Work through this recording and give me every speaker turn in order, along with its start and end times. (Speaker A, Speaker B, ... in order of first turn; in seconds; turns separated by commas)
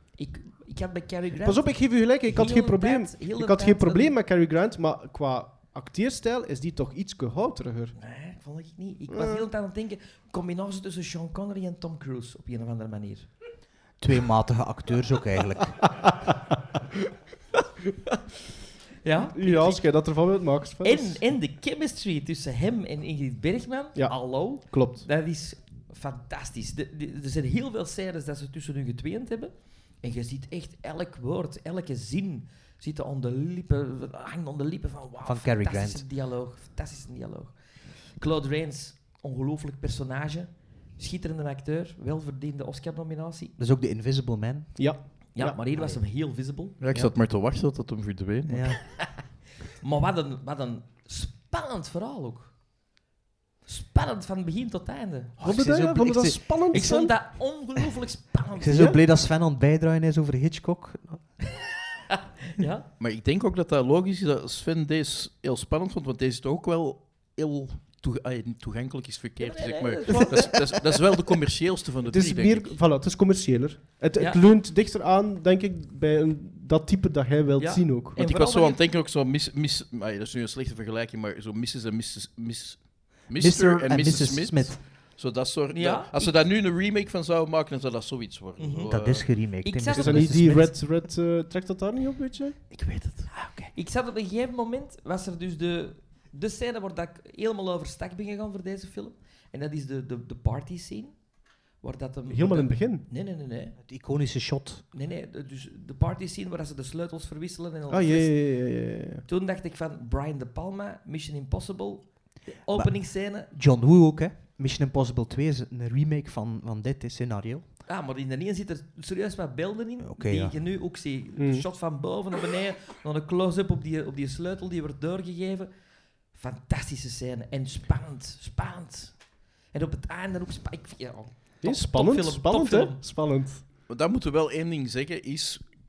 Speaker A: 0.2-4.1, Speaker B: 1.4-7.9, Speaker A: 8.0-13.3, Speaker B: 9.1-9.5, Speaker C: 14.0-16.1, Speaker A: 19.0-19.9, Speaker B: 19.3-21.2, Speaker A: 20.8-43.5, Speaker B: 23.9-25.1, Speaker C: 35.2-36.0, Speaker C: 43.6-45.1, Speaker B: 44.8-45.6, Speaker A: 45.3-46.8, Speaker D: 46.8-48.8, Speaker C: 48.5-48.8, Speaker A: 49.8-52.5, Speaker A: 53.6-55.4, Speaker C: 55.4-56.6, Speaker B: 55.4-57.1, Speaker A: 56.7-59.0, Speaker C: 58.6-61.3, Speaker A: 62.1-62.9, Speaker D: 63.0-72.8, Speaker A: 69.4-70.7, Speaker B: 72.0-78.2, Speaker A: 77.6-78.8, Speaker D: 78.2-89.3, Speaker C: 83.3-84.8, Speaker A: 85.7-86.3, Speaker A: 88.6-88.9, Speaker C: 88.9-90.7, Speaker A: 89.4-90.8, Speaker B: 89.9-92.6, Speaker D: 92.7-93.3, Speaker C: 93.3-93.7, Speaker A: 93.7-101.2, Speaker A: 101.8-103.8, Speaker B: 102.3-103.0, Speaker C: 103.8-104.8, Speaker A: 104.9-108.3, Speaker B: 107.9-109.2, Speaker A: 109.2-113.5, Speaker C: 112.8-117.6, Speaker A: 117.9-125.7, Speaker C: 120.0-120.6, Speaker B: 121.3-121.7, Speaker A: 126.3-129.2, Speaker A: 129.7-133.0, Speaker B: 131.6-133.6, Speaker D: 133.9-135.6